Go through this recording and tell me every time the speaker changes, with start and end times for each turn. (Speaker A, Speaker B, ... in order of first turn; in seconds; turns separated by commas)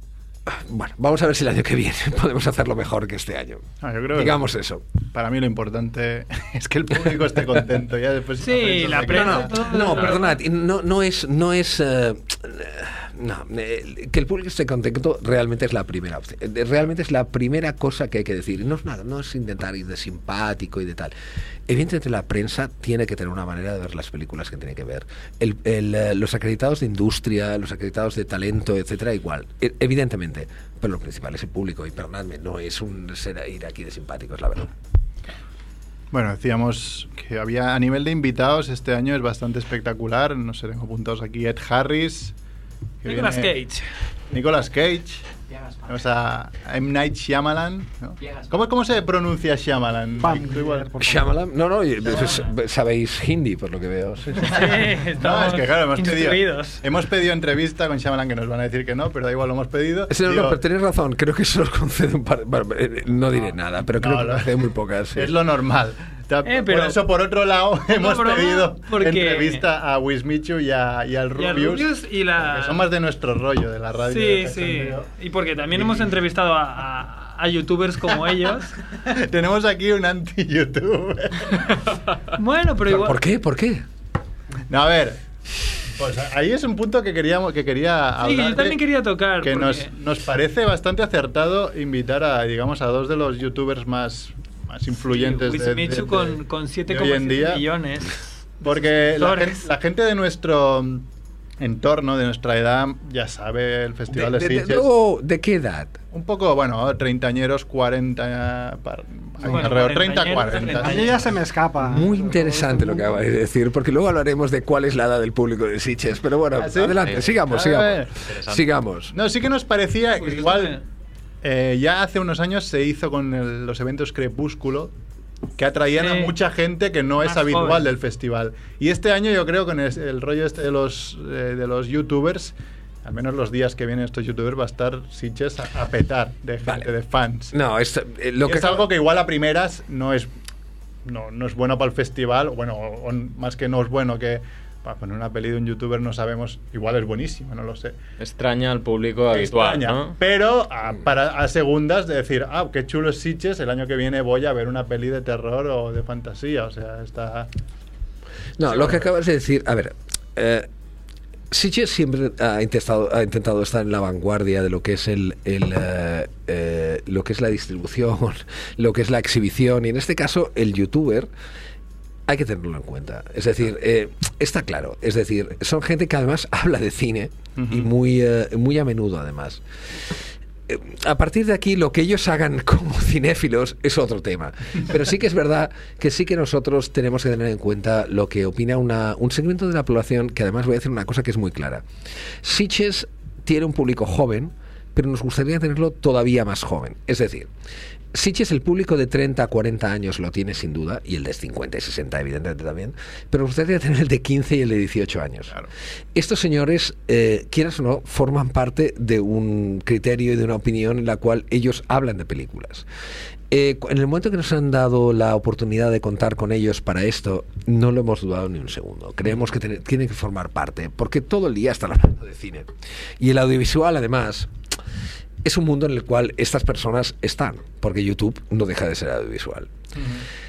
Speaker A: 0.5-4.8, Speaker B: 3.8-4.4, Speaker B: 5.1-10.1, Speaker C: 8.4-10.4, Speaker A: 9.0-21.1, Speaker A: 21.7-34.7, Speaker B: 36.1-42.3, Speaker B: 43.0-43.5, Speaker C: 43.0-43.9, Speaker B: 44.3-45.2, Speaker B: 45.9-50.9, Speaker D: 50.2-51.4, Speaker A: 51.0-54.6, Speaker C: 54.4-56.8, Speaker B: 54.6-60.6, Speaker A: 60.1-65.3, Speaker B: 63.9-64.5, Speaker B: 65.1-75.1, Speaker C: 66.5-67.0, Speaker C: 67.9-69.6, Speaker C: 71.4-72.9, Speaker C: 74.1-78.8, Speaker B: 75.7-76.1, Speaker B: 79.1-81.8, Speaker C: 82.3-83.2, Speaker A: 82.8-83.9, Speaker B: 84.7-85.2, Speaker B: 85.9-88.8, Speaker C: 88.2-89.9, Speaker B: 89.4-97.7, Speaker C: 95.0-99.7, Speaker B: 98.6-101.1, Speaker B: 101.6-104.9, Speaker A: 104.1-106.0, Speaker B: 106.1-111.2, Speaker D: 109.4-109.8, Speaker C: 109.5-111.3, Speaker D: 110.8-113.2, Speaker A: 111.8-119.1, Speaker B: 116.6-118.1, Speaker E: 117.0-117.4, Speaker E: 118.2-118.7, Speaker B: 119.1-120.8, Speaker C: 120.2-120.8, Speaker B: 121.4-124.9, Speaker B: 125.6-132.5, Speaker C: 126.0-126.3, Speaker C: 127.2-127.9, Speaker B: 133.1-137.5, Speaker A: 136.6-136.9, Speaker A: 137.5-138.9, Speaker B: 138.4-140.3, Speaker B: 141.1-147.9, Speaker E: 148.2-150.2, Speaker B: 149.3-157.5, Speaker A: 158.6-160.7, Speaker A: 161.5-171.3, Speaker A: 172.3-179.6, Speaker B: 177.6-177.9, Speaker A: 180.7-191.8, Speaker A: 192.4-197.5, Speaker A: 198.1-205.5, Speaker A: 206.2-212.9, Speaker A: 213.5-224.5, Speaker A: 225.4-229.7, Speaker B: 230.0-230.2